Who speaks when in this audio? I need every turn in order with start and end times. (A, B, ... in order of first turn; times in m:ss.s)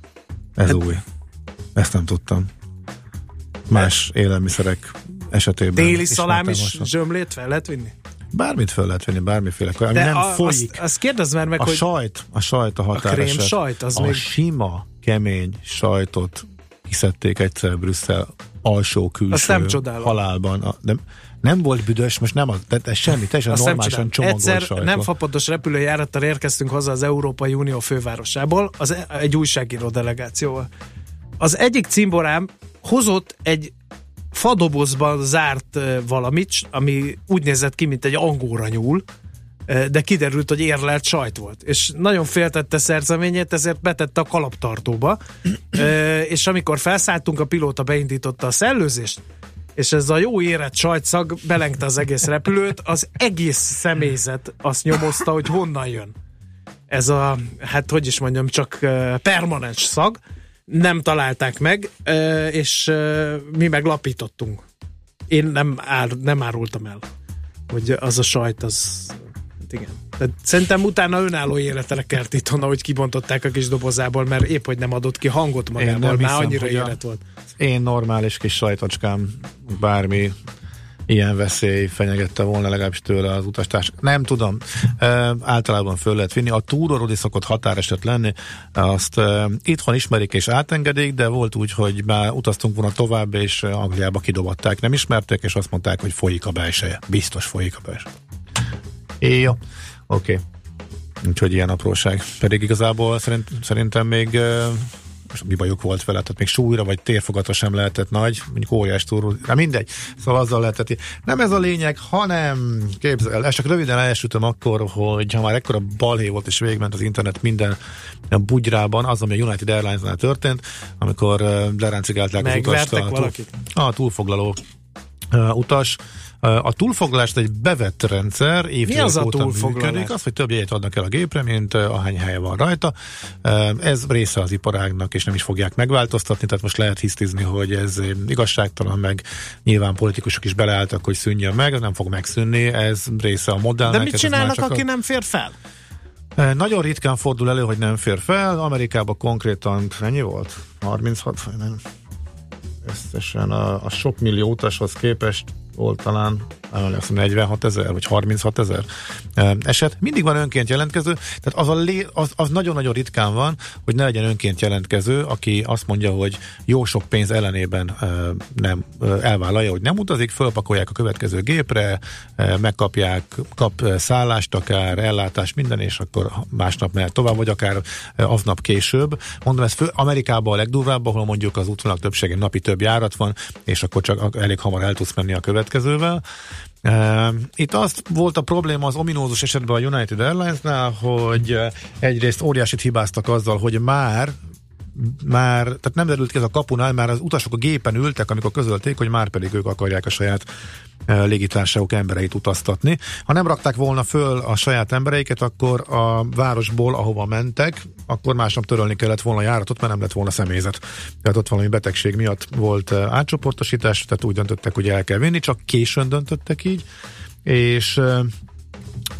0:00.6-0:01.0 A
0:01.8-0:02.5 A
0:03.7-0:06.9 A
0:05.8-0:07.9 B
0:08.3-0:10.8 A
0:09.9-0:11.8 B
0:11.6-0:25.1 A
0:12.9-0:14.2 B
0:19.3-0:20.1 B
0:23.5-0:30.7 B
0:31.4-0:33.7 B
0:34.3-0:39.0 B
0:39.7-0:45.2 B
0:45.7-0:49.2 B
0:49.8-0:56.1 B
0:56.9-1:04.6 B
1:05.3-1:07.0 B
1:07.7-1:17.2 B
1:15.8-1:17.0 A
1:17.6-1:20.3 A
1:21.1-1:38.1 A
1:39.2-1:40.4 A
1:41.2-1:57.8 A
1:58.3-2:04.6 A
2:02.4-2:03.5 B
2:05.3-2:24.8 A
2:08.8-2:10.1 B
2:23.9-2:25.5 B
2:26.4-2:31.8 A
2:32.8-3:06.2 A
3:06.8-3:14.4 A
3:14.9-3:20.4 A
3:21.1-3:36.8 A
3:37.4-3:38.3 A